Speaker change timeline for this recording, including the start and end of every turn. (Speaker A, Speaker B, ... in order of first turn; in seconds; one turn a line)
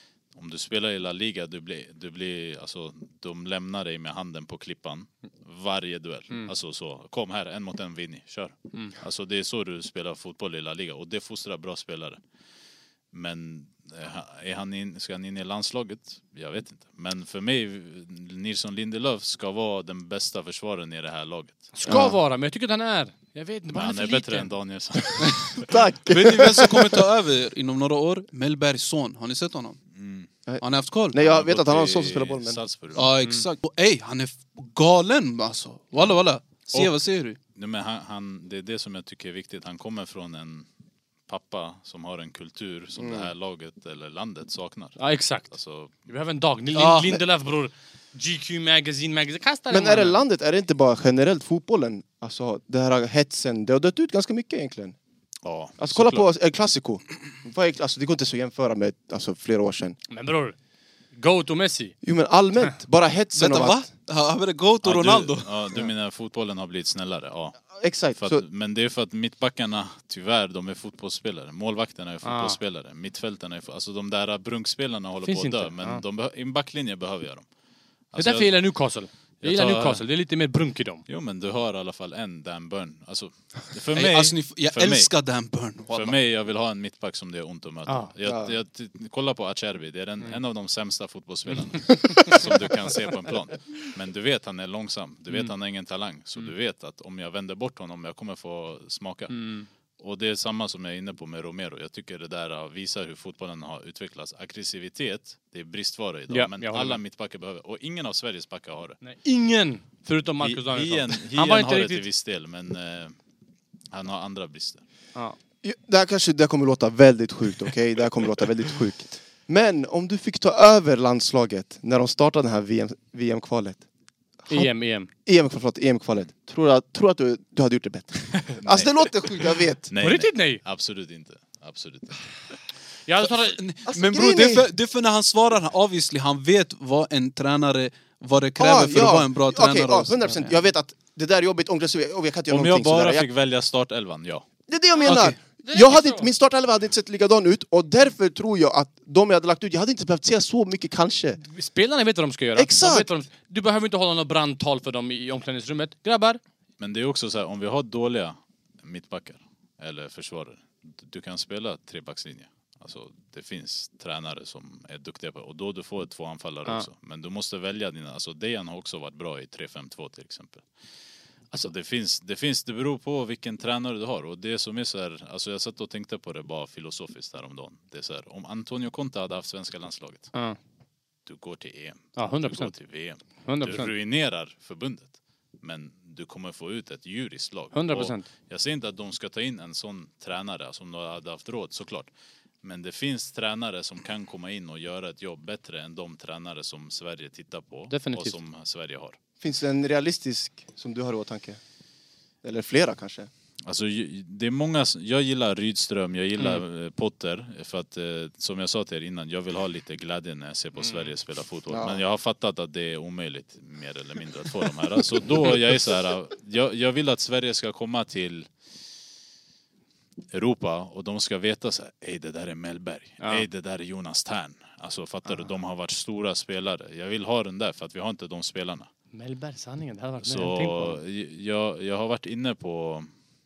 Speaker A: 0.3-12.2
Speaker A: 13.1-22.1
Speaker B: 21.8-24.5
Speaker C: 21.9-22.2
Speaker A: 23.7-25.7
Speaker C: 25.5-27.1
Speaker D: 26.1-29.8
Speaker A: 29.9-30.3
Speaker C: 30.5-32.6
Speaker D: 30.6-31.2
Speaker A: 31.1-33.1
Speaker D: 32.9-37.4
Speaker A: 36.7-37.0
Speaker A: 37.5-40.7
Speaker A: 41.3-46.0
Speaker C: 43.0-43.3
Speaker B: 45.0-45.5
Speaker B: 46.1-50.2
Speaker D: 46.7-47.2
Speaker C: 49.7-55.0
Speaker A: 55.4-56.2
Speaker C: 55.8-60.0
Speaker B: 60.1-60.5
Speaker B: 61.1-61.9
Speaker C: 62.0-63.9
Speaker D: 63.3-65.6
Speaker A: 64.8-77.4
Speaker C: 67.8-68.4
Speaker B: 72.2-72.6
Speaker B: 75.2-76.0
Speaker A: 78.1-78.5
Speaker B: 78.2-81.0
Speaker A: 79.4-80.0
Speaker A: 81.1-85.1
Speaker D: 83.9-86.2
Speaker A: 85.9-99.4
Speaker B: 87.9-88.1
Speaker C: 88.2-88.5
Speaker B: 92.0-92.4
Speaker B: 99.3-99.7
Speaker A: 100.0-109.0
Speaker B: 106.3-107.0
Speaker B: 109.0-112.0
Speaker A: 110.4-113.1
Speaker A: 113.9-114.8
Speaker C: 115.6-123.8
Speaker B: 124.5-125.1
Speaker C: 125.2-129.9
Speaker A: 128.4-128.9
Speaker A: 129.9-132.3
Speaker B: 130.0-130.6
Speaker B: 133.1-133.6
Speaker D: 133.4-140.6
Speaker C: 133.8-134.7
Speaker C: 138.6-143.3
Speaker A: 142.5-144.4
Speaker C: 144.7-151.4
Speaker B: 145.0-146.2
Speaker D: 145.1-145.3
Speaker B: 151.4-156.4
Speaker C: 152.6-153.1
Speaker A: 156.8-170.6
Speaker A: 171.6-180.3
Speaker A: 181.2-192.1
Speaker B: 182.2-182.7
Speaker B: 183.4-183.9
Speaker B: 187.7-188.2
Speaker A: 192.6-199.2
Speaker B: 197.9-198.3
Speaker C: 199.4-201.6
Speaker C: 202.4-203.3
Speaker A: 203.6-218.5
Speaker B: 210.8-211.1
Speaker C: 211.7-212.0
Speaker A: 220.3-228.9
Speaker B: 229.1-231.0
Speaker A: 230.2-233.1